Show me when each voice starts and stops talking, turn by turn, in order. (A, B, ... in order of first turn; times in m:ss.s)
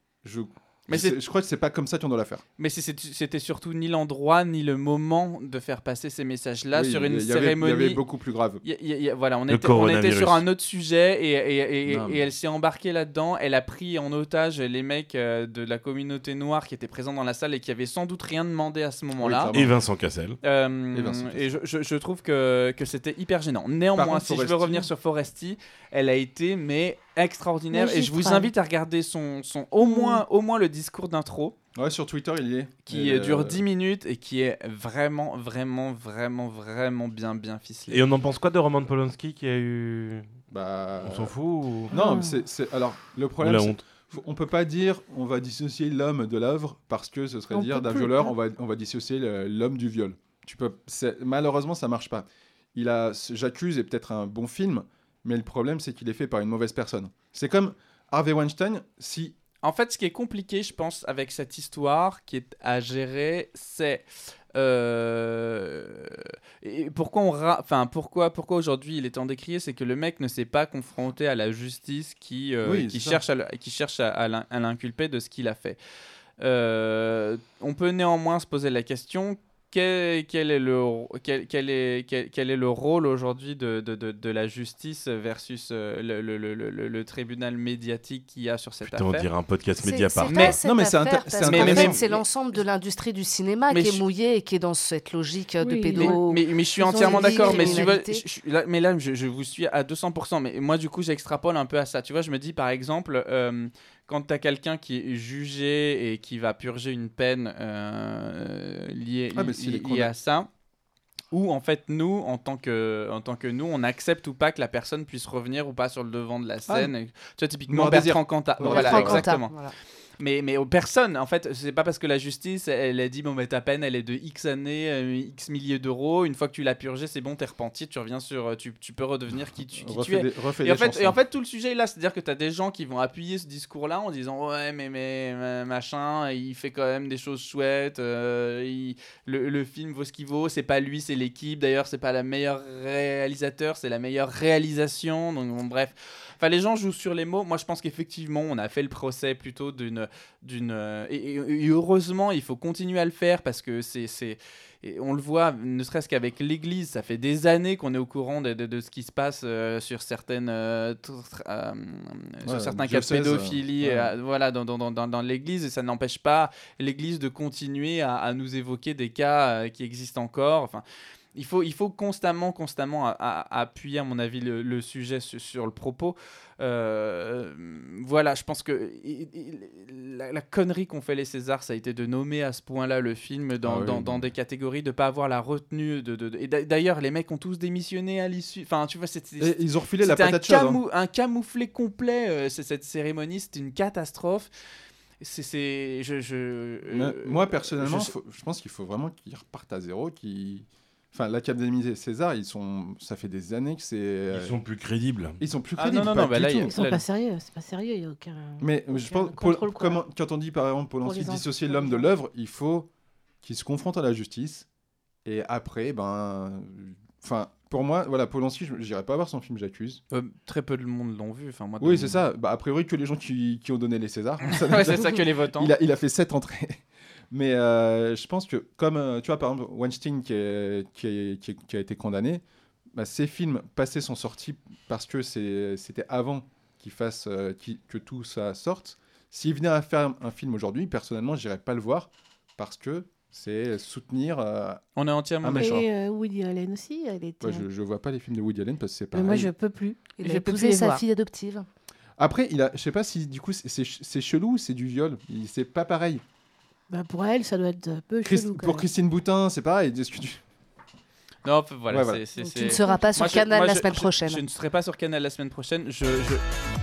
0:00.2-0:02.4 A
0:00.9-0:01.2 B
0:02.6-0:08.0 B
0:06.7-0:08.6 A
0:08.6-0:19.6 B
0:09.5-0:10.4 C
0:11.9-0:12.2 A
0:19.2-0:19.8 A
0:19.5-0:20.4 C
0:20.4-0:31.6 B
0:20.9-0:21.5 A
0:24.0-0:24.9 A
0:27.7-0:28.5 D
0:29.8-0:30.2 D
0:31.8-0:33.6 A
0:32.9-0:38.0 B
0:37.9-0:40.3 C
0:40.5-0:41.4 A
0:41.0-0:41.9 C
0:41.9-0:59.4 A
0:41.9-0:42.4 D
0:43.4-0:43.8 C
0:47.5-0:48.3 D
0:59.6-1:15.8 B
1:12.6-1:13.2 A
1:16.4-1:29.3 B
1:28.8-1:30.6 C
1:29.8-1:38.2 E
1:30.2-1:30.6 B
1:30.6-1:32.1 A
1:31.4-1:32.2 B
1:33.7-1:34.0 B
1:35.6-1:37.9 D
1:36.0-1:50.5 B
1:49.4-1:50.1 A
1:51.3-1:59.6 B
1:57.7-1:59.3 A
1:58.6-1:59.7 E
2:00.2-2:50.8 B
2:09.8-2:11.2 A
2:42.4-2:44.1 A
2:51.4-3:14.5 B
3:03.6-3:04.3 A
3:09.4-3:10.8 A
3:15.2-3:18.1 B
3:16.9-3:24.6 A
3:24.3-3:25.4 C
3:25.4-3:26.8 A
3:25.8-3:27.0 B
3:26.7-3:30.0 D
3:28.6-3:32.9 A
3:31.0-3:32.1 D
3:33.4-3:34.7 A
3:35.2-3:40.0 A
3:40.1-3:42.2 B
3:41.8-3:52.4 A
3:44.5-3:45.7 B
3:52.9-4:04.8 A
4:05.0-4:05.7 B
4:05.4-4:05.9 A
4:05.6-4:07.7 D
4:07.4-4:09.5 A
4:09.1-4:11.0 D
4:10.2-4:11.7 E
4:12.2-4:16.2 A
4:16.9-4:18.9 D
4:18.2-4:20.4 A
4:21.4-4:26.4 B
4:21.9-4:22.2 A
4:22.4-4:24.4 E
4:22.7-4:23.2 D